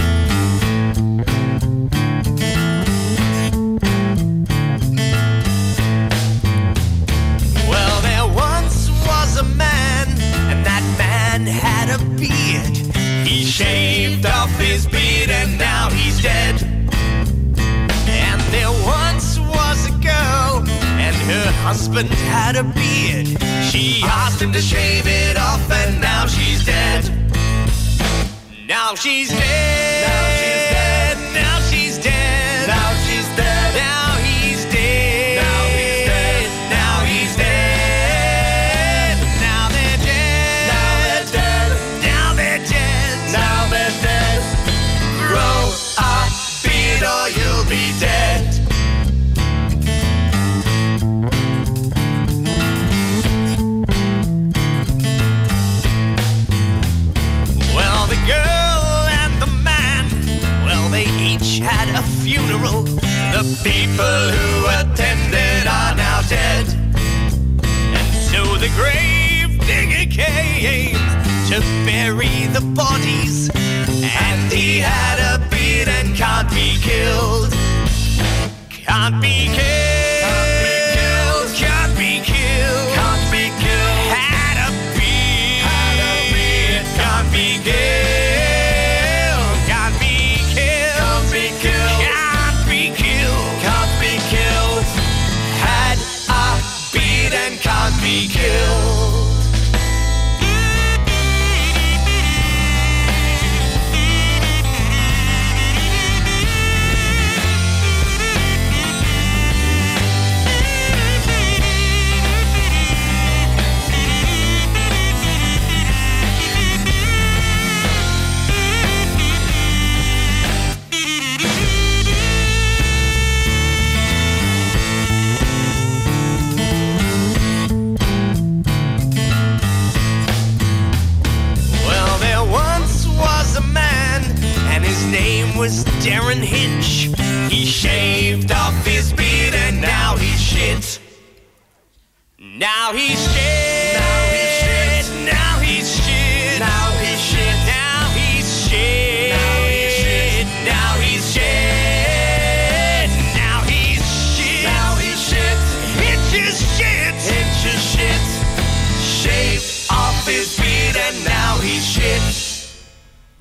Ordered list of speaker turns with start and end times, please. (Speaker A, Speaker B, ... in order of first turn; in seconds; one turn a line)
Speaker A: 7.5-16.9
Speaker A: 18.0-27.3
Speaker A: 28.5-48.7
Speaker A: 57.5-66.9
Speaker A: 67.9-77.7
Speaker A: 78.7-99.5
Speaker A: 131.7-141.0
Speaker A: 142.4-162.7